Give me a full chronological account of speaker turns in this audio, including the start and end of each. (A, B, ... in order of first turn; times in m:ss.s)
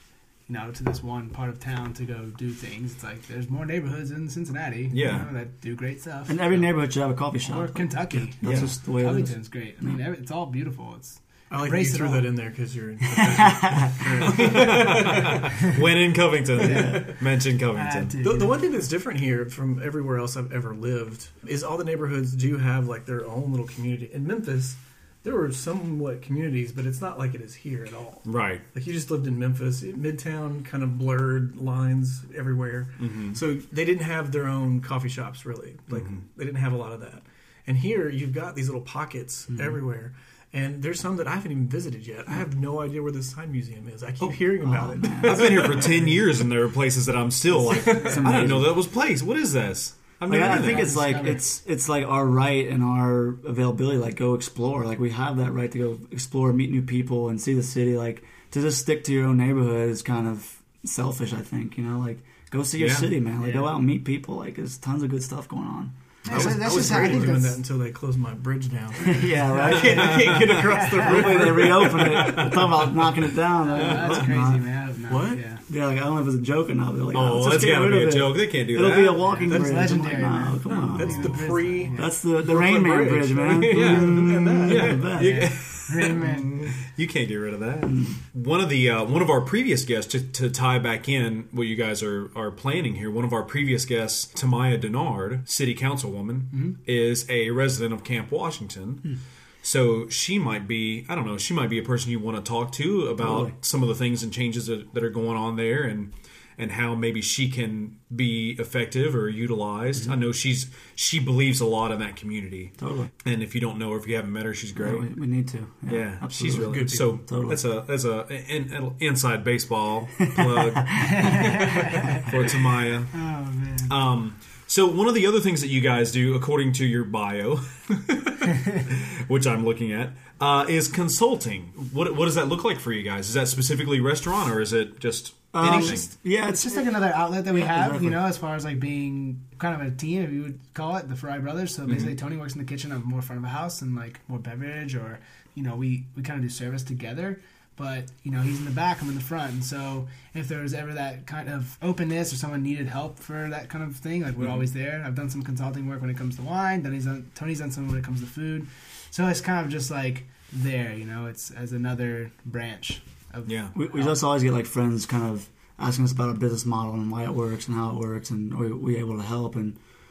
0:00.5-0:06.6 A
0:04.9-0:05.3 B
0:06.2-0:10.0 C
0:07.4-0:12.3 A
0:08.4-0:08.7 B
0:11.5-0:15.5 D
0:14.3-0:18.2 B
0:16.6-0:17.1 C
0:16.6-0:17.1 A
0:17.7-0:18.6 A
0:18.2-0:45.9 D
0:28.2-0:28.6 B
0:33.0-0:33.4 B
0:35.9-0:36.2 B
0:39.5-0:39.8 C
0:44.6-0:45.8 C
0:45.2-0:50.9 B
0:47.7-0:48.8 C
0:50.3-1:07.4 C
0:50.3-0:51.4 A
1:02.8-1:03.2 B
1:03.4-1:03.7 A
1:06.2-1:07.6 A
1:06.3-1:12.4 D
1:09.0-1:10.4 C
1:09.9-1:10.8 B
1:10.7-1:11.2 A
1:11.0-1:14.6 C
1:11.8-1:12.8 B
1:13.7-1:15.6 A
1:13.8-1:14.3 B
1:15.1-1:15.4 D
1:15.7-1:25.5 C
1:17.1-1:19.2 B
1:19.4-1:19.8 D
1:19.5-1:22.1 A
1:20.6-1:21.0 B
1:20.9-1:25.4 D
1:23.6-1:39.1 B
1:25.9-1:26.7 A
1:27.8-1:28.2 C
1:36.5-1:36.8 A
1:39.6-1:55.1 B
1:43.2-1:43.5 C
1:52.8-1:53.1 C
1:54.8-1:57.6 C
1:55.9-2:03.1 B
1:56.5-1:57.2 D
2:00.3-2:01.9 C
2:01.0-2:02.3 A
2:03.1-2:03.9 A
2:03.8-2:16.1 B
2:15.5-2:17.0 C
2:15.6-2:44.2 A
2:17.5-2:18.2 C
2:43.4-2:43.7 B
2:43.7-2:49.8 C